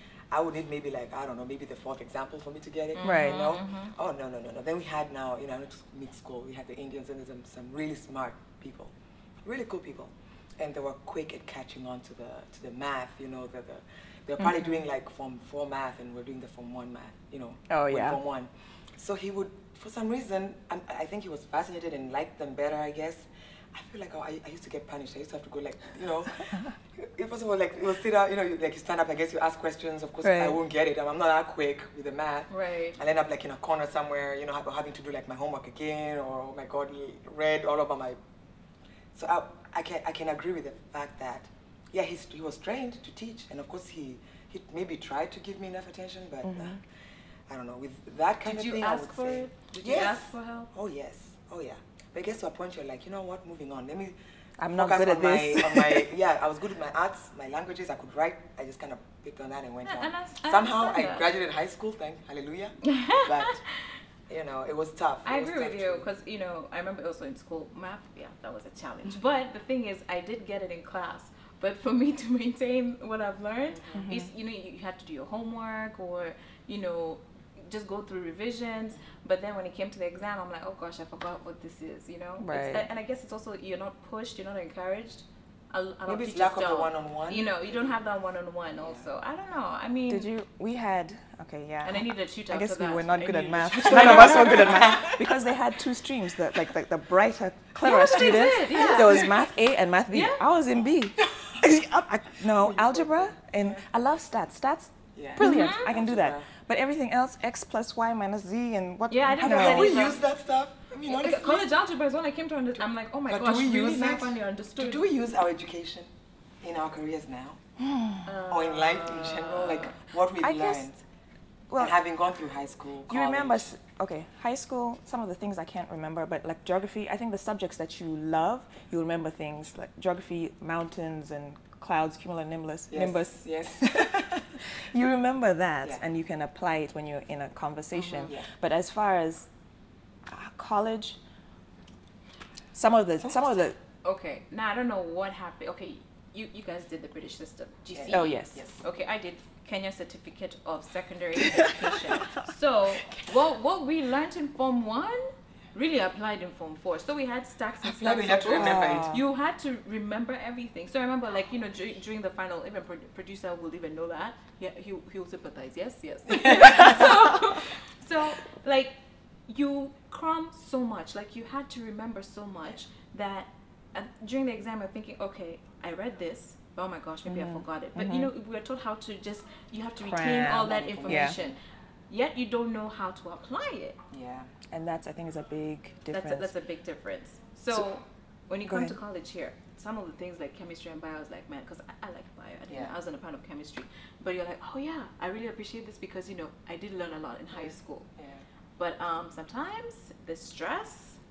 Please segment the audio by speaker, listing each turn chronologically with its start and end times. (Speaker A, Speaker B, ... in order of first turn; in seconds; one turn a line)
Speaker A: 0.3-8.9
Speaker B: 2.9-3.9
Speaker C: 3.0-3.6
Speaker A: 9.4-38.2
Speaker C: 17.7-18.2
Speaker C: 30.2-30.6
Speaker B: 32.5-33.0
Speaker A: 39.1-46.8
Speaker C: 46.4-46.8
Speaker A: 47.5-54.1
Speaker B: 48.4-50.7
Speaker C: 54.6-56.1
Speaker A: 54.7-63.6
Speaker B: 59.8-61.3
Speaker B: 62.8-63.5
Speaker A: 64.3-66.1
Speaker B: 65.2-90.3
Speaker C: 73.9-74.3
Speaker C: 82.4-82.9
Speaker A: 86.0-87.8
Speaker A: 88.8-89.1
Speaker C: 90.1-110.0
Speaker B: 91.8-95.2
Speaker A: 93.8-95.3
Speaker B: 97.8-99.3
Speaker B: 100.1-100.4
Speaker A: 102.5-103.8
Speaker A: 105.1-106.5
Speaker B: 105.4-105.9
Speaker B: 109.1-110.2
Speaker A: 109.4-111.7
Speaker B: 111.0-115.1
Speaker A: 113.3-116.1
Speaker A: 116.6-117.6
Speaker C: 117.8-118.2
Speaker B: 118.2-119.9
Speaker A: 118.5-121.0
Speaker C: 120.4-120.8
Speaker C: 121.7-122.0
Speaker A: 121.8-123.7
Speaker C: 123.1-133.7
Speaker A: 132.9-134.6
Speaker C: 134.6-139.5
Speaker B: 137.9-138.3
Speaker C: 140.3-141.2
Speaker C: 142.7-143.8
Speaker B: 144.0-168.9
Speaker A: 147.9-148.7
Speaker C: 148.1-148.6
Speaker A: 157.8-159.2
Speaker C: 158.5-159.2
Speaker B: 169.5-181.6
Speaker C: 177.3-178.3
Speaker C: 180.0-181.3
Speaker A: 180.6-181.5
Speaker B: 182.1-184.0
Speaker A: 184.1-184.5
Speaker C: 184.7-186.5
Speaker B: 186.1-198.1
Speaker C: 188.7-188.9
Speaker A: 192.7-192.9
Speaker A: 198.2-198.4
Speaker B: 198.8-201.2